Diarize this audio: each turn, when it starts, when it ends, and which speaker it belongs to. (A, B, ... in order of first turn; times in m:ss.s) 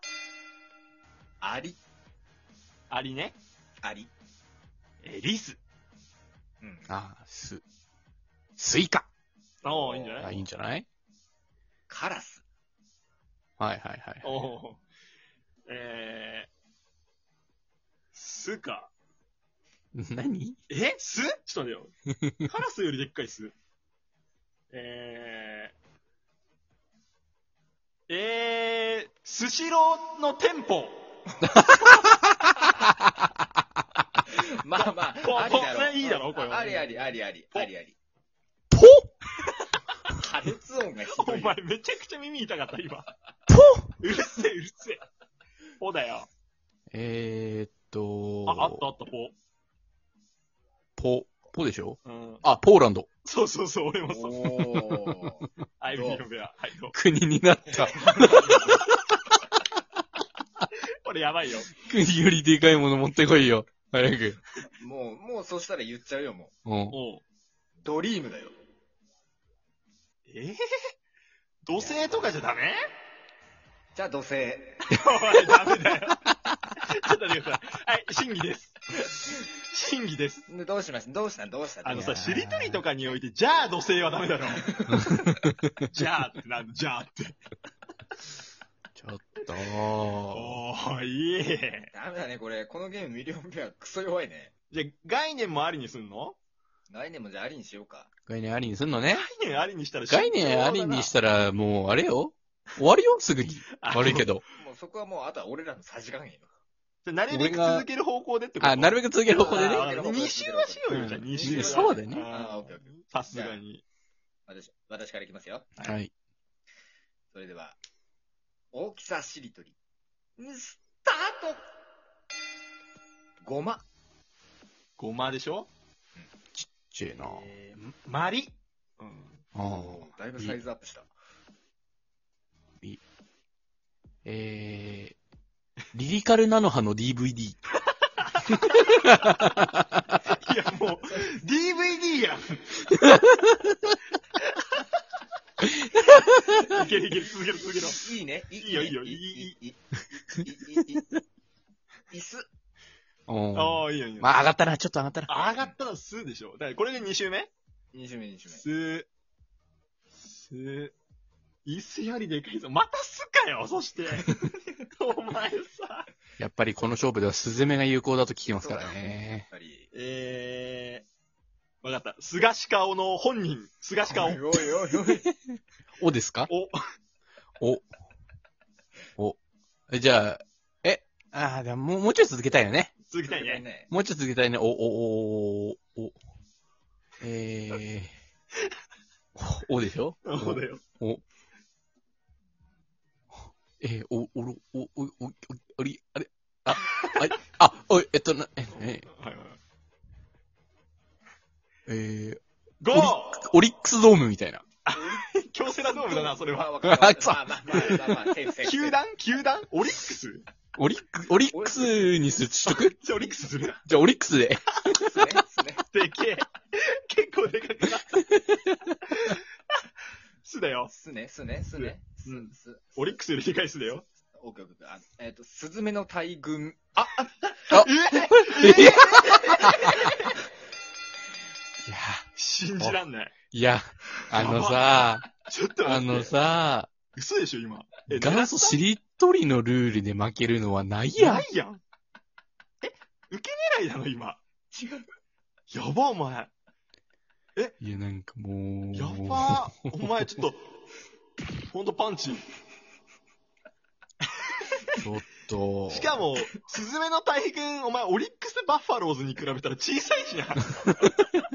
0:01.4-0:01.8 A
0:02.9-0:03.4 B
0:03.8-0:04.1 A
0:05.0-0:05.6 B
0:06.6-0:06.9 A
0:06.9-0:07.6 C
0:08.6-0:09.1 C
0:09.6-0:10.3 A
0:09.6-0:10.3 B
0:10.2-0:10.8 C
0:11.9-0:12.4 A
0:13.6-0:14.4 C
0:14.2-0:14.8 B
0:15.6-0:16.5 B
0:18.1-0:18.9 B
0:19.9-0:20.6 C
0:20.7-0:21.9 B
0:22.4-0:23.5 B
0:24.7-0:25.7 B
0:28.1-0:31.0 B
0:31.6-0:32.9 C
0:34.3-0:37.9 A
0:34.7-0:37.7 B
0:38.7-0:39.1 C
0:40.1-0:41.6 A
0:41.0-0:43.1 B
0:43.5-0:43.9 C
0:44.0-0:45.0 B
0:45.8-0:46.3 B
0:46.9-0:48.9 C
0:48.4-0:49.4 B
0:51.0-0:53.1 C
0:52.0-0:52.4 B
0:53.2-0:54.8 B
0:54.1-0:56.2 A
0:55.8-0:57.0 B
0:56.9-0:59.0 C
0:57.8-0:58.8 A
1:01.0-1:01.7 B
1:01.8-1:04.4 C
1:04.6-1:06.5 A
1:06.6-1:07.0 C
1:06.9-1:07.2 B
1:07.8-1:08.6 A
1:10.3-1:10.6 B
1:11.6-1:12.8 B
1:11.8-1:12.3 A
1:13.9-1:15.0 A
1:14.9-1:16.2 B
1:16.8-1:20.5 B
1:20.5-1:22.4 A
1:21.8-1:24.6 B
1:21.9-1:22.8 C
1:24.6-1:25.3 A
1:24.9-1:25.8 C
1:25.9-1:27.4 B
1:28.9-1:30.6 C
1:30.3-1:31.9 B
1:31.9-1:34.5 A
1:34.7-1:36.4 B
1:36.9-1:38.1 A
1:38.3-1:39.3 C
1:39.1-1:41.1 B
1:40.1-1:44.4 C
1:43.8-1:44.3 B
1:44.6-1:46.5 A
1:47.0-1:53.8 B
1:47.3-1:47.9 C
1:48.6-1:49.9 C
1:49.3-1:53.6 A
1:50.9-1:52.3 C
1:54.5-1:56.0 A
1:55.8-1:56.1 C
1:57.3-1:57.8 A
1:58.7-1:59.7 A
2:00.4-2:01.6 A
2:03.4-2:03.8 A
2:05.0-2:05.7 B
2:06.5-2:07.4 C
2:07.2-2:09.4 B
2:09.5-2:10.6 C
2:09.7-2:11.1 A
2:14.2-2:15.2 C
2:15.9-2:17.6 C
2:18.2-2:18.9 B
2:18.7-2:19.8 C
2:20.3-2:22.9 B
2:23.0-2:23.9 C
2:24.4-2:24.8 B
2:25.6-2:26.8 C
2:26.6-2:28.0 B
2:27.8-2:31.2 A
2:28.6-2:29.5 B
2:32.1-2:32.4 A
2:33.3-2:35.5 C
2:33.5-2:34.3 B
2:35.3-2:37.5 B
2:37.9-2:38.6 A
2:38.5-2:39.1 B
2:40.2-2:40.9 B
2:41.6-2:46.1 B
2:46.4-2:49.4 C
2:48.5-2:49.9 A
2:49.9-2:51.0 B
2:51.8-2:54.4 B
2:54.1-2:55.3 A
2:55.1-2:56.5 C
2:56.5-2:56.8 B
2:57.6-2:57.8 C
2:59.9-3:02.9 C
3:03.1-3:03.6 B
3:03.3-3:03.9 A
3:03.9-3:06.2 C
3:07.2-3:08.1 C
3:09.4-3:11.2 C
3:10.2-3:10.8 B
3:13.8-3:19.0 C
3:16.8-3:17.1 B
3:18.7-3:19.6 B
3:21.9-3:22.4 C
3:22.8-3:23.4 B
3:22.9-3:24.6 C
3:24.8-3:26.7 B
3:24.9-3:25.3 A
3:25.8-3:29.0 A
3:26.8-3:28.3 C
3:28.6-3:30.4 B
3:30.8-3:33.0 C
3:31.5-3:32.2 A
3:32.6-3:33.8 B
3:33.8-3:35.3 C
3:34.8-3:35.8 A
3:35.9-3:38.3 B
3:38.2-3:38.7 C
3:39.1-3:39.4 B
3:40.4-3:40.9 B
3:40.9-3:43.2 A
3:41.8-3:44.0 B
3:44.3-3:47.8 A
3:47.7-3:50.4 B
3:47.7-3:50.1 C
3:48.9-3:49.2 A
3:51.8-3:52.2 C
3:52.3-3:53.3 B
3:53.5-3:55.3 C
3:54.3-3:54.9 B
3:55.4-3:56.4 B
3:55.8-3:56.9 C
3:57.1-3:58.8 B
3:58.1-4:01.4 C
4:01.2-4:01.8 B
4:02.8-4:04.4 B
4:04.7-4:05.1 A
4:05.7-4:06.5 B
4:07.8-4:09.9 C
4:08.9-4:10.8 B
4:11.7-4:12.4 B
4:14.9-4:16.2 C
4:15.9-4:20.9 B